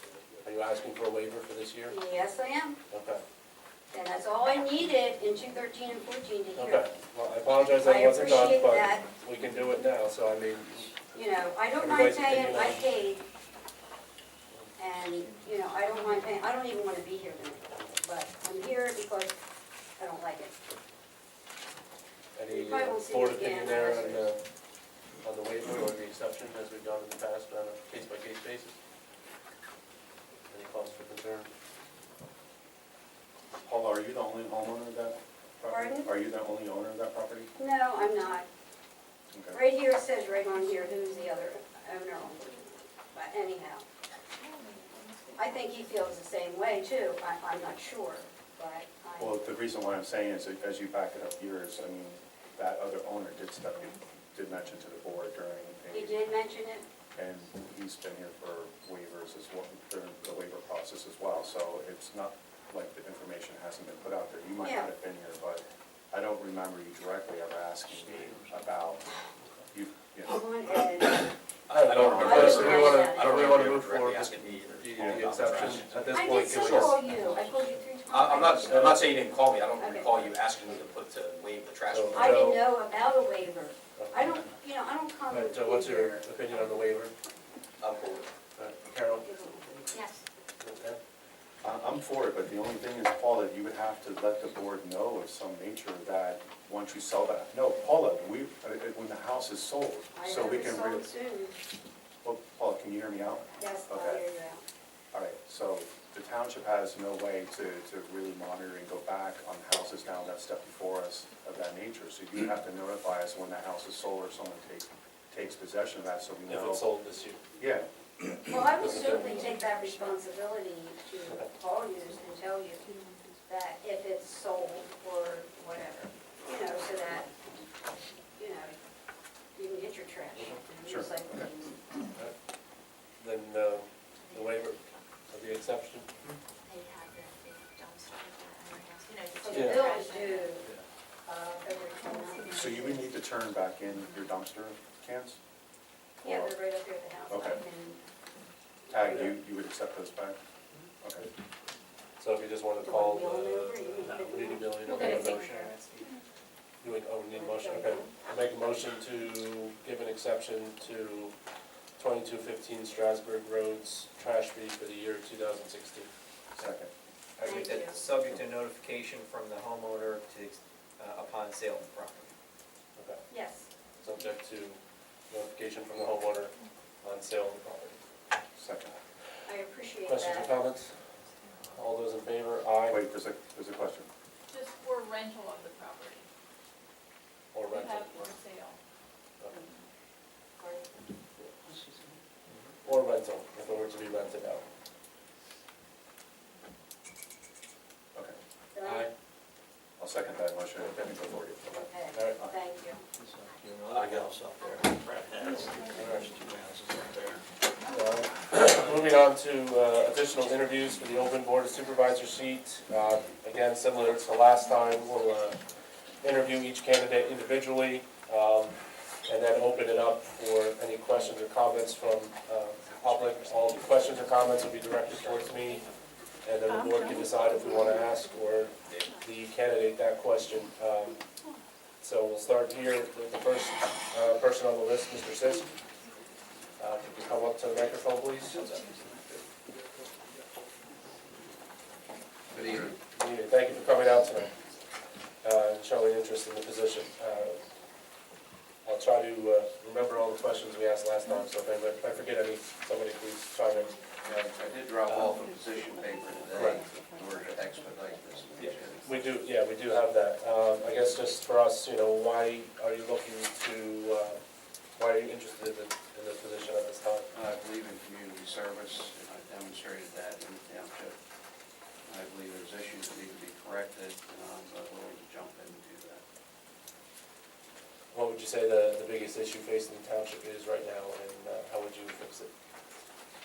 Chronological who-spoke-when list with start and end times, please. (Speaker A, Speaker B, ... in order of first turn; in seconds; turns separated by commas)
Speaker A: 0.4-2.0, Speaker B: 1.9-2.8, Speaker A: 2.9-3.2, Speaker B: 3.9-6.9, Speaker A: 6.6-10.9, Speaker B: 7.8-9.1, Speaker B: 11.1-13.2, Speaker A: 11.8-12.9, Speaker B: 14.8-19.4, Speaker C: 15.2-16.4, Speaker B: 20.0-20.5, Speaker A: 22.4-24.4, Speaker B: 22.5-24.2, Speaker A: 25.2-28.8, Speaker A: 30.5-31.5, Speaker D: 33.6-37.5, Speaker B: 35.7-36.1, Speaker B: 37.5-38.5, Speaker D: 39.3-39.6, Speaker B: 39.5-43.8, Speaker E: 44.4-45.6, Speaker C: 44.9-45.4, Speaker B: 45.4-49.4, Speaker D: 49.2-56.3, Speaker B: 55.9-56.9, Speaker D: 57.1-69.0, Speaker B: 64.6-64.9, Speaker F: 68.1-68.4, Speaker D: 69.7-70.4, Speaker B: 70.3-71.3, Speaker G: 71.7-77.0, Speaker A: 71.7-77.0, Speaker B: 72.1-73.7, Speaker B: 76.1-79.1, Speaker F: 77.0-77.7, Speaker G: 78.1-82.6, Speaker A: 78.7-79.0, Speaker B: 79.8-80.2, Speaker A: 81.9-82.6, Speaker B: 82.1-86.2, Speaker A: 85.3-87.1, Speaker G: 87.8-88.3, Speaker A: 88.5-89.3, Speaker B: 89.2-89.9, Speaker E: 89.9-90.2, Speaker A: 90.6-91.0, Speaker D: 91.6-101.1, Speaker B: 100.1-101.5, Speaker D: 102.2-104.2, Speaker B: 103.6-104.6, Speaker D: 105.1-116.9, Speaker A: 116.5-117.4, Speaker D: 117.6-117.9, Speaker B: 118.5-122.8, Speaker A: 118.8-119.5, Speaker C: 118.8-120.5, Speaker E: 119.0-119.5, Speaker C: 121.9-123.5, Speaker B: 123.5-127.3, Speaker C: 127.0-127.3, Speaker B: 128.4-128.8, Speaker B: 129.6-131.8, Speaker A: 130.3-130.6, Speaker D: 130.8-131.5, Speaker A: 133.2-136.1, Speaker E: 134.2-135.1, Speaker E: 136.6-140.6, Speaker B: 139.4-140.7, Speaker A: 139.5-139.9, Speaker B: 141.3-143.0, Speaker C: 142.0-143.0, Speaker D: 142.5-145.4, Speaker B: 146.2-148.0, Speaker D: 147.3-147.6, Speaker E: 147.4-147.8, Speaker D: 148.9-150.4, Speaker A: 148.9-149.4, Speaker D: 151.0-151.3, Speaker A: 152.2-155.7, Speaker B: 152.8-155.8, Speaker E: 154.9-155.3, Speaker A: 156.8-161.3, Speaker B: 157.3-158.1, Speaker A: 162.0-166.1, Speaker D: 166.6-166.9, Speaker F: 167.4-172.3, Speaker B: 167.4-168.0, Speaker B: 173.3-173.7, Speaker A: 174.0-174.8, Speaker A: 175.3-178.0, Speaker D: 178.6-179.0, Speaker B: 179.5-180.6, Speaker A: 180.1-180.9, Speaker A: 181.7-183.0, Speaker D: 182.9-184.1, Speaker C: 184.5-186.1, Speaker E: 184.5-185.0, Speaker E: 185.7-186.2, Speaker A: 187.5-188.3, Speaker C: 187.7-188.8, Speaker B: 190.6-190.9, Speaker A: 192.8-194.7, Speaker B: 198.7-199.1, Speaker A: 198.8-199.1, Speaker D: 200.0-201.7, Speaker A: 200.8-201.1, Speaker A: 201.7-202.4, Speaker B: 201.7-203.0, Speaker F: 203.6-207.3, Speaker G: 203.8-204.3, Speaker H: 204.4-206.6, Speaker C: 205.3-206.6, Speaker A: 206.0-206.3, Speaker A: 207.9-215.6, Speaker C: 214.7-215.2, Speaker A: 216.2-225.9, Speaker G: 222.9-223.9, Speaker G: 225.1-225.4, Speaker C: 225.4-229.1, Speaker A: 226.4-231.2, Speaker G: 228.8-229.1, Speaker A: 232.0-235.7, Speaker C: 235.4-236.3, Speaker A: 236.8-238.8, Speaker A: 242.5-244.5, Speaker A: 245.4-247.6, Speaker A: 248.8-254.0, Speaker H: 254.2-259.3, Speaker A: 255.1-255.3, Speaker C: 255.3-259.3, Speaker A: 256.5-256.8, Speaker A: 258.6-264.4, Speaker A: 265.0-267.3, Speaker H: 267.3-271.2, Speaker H: 272.1-276.2, Speaker A: 278.1-282.5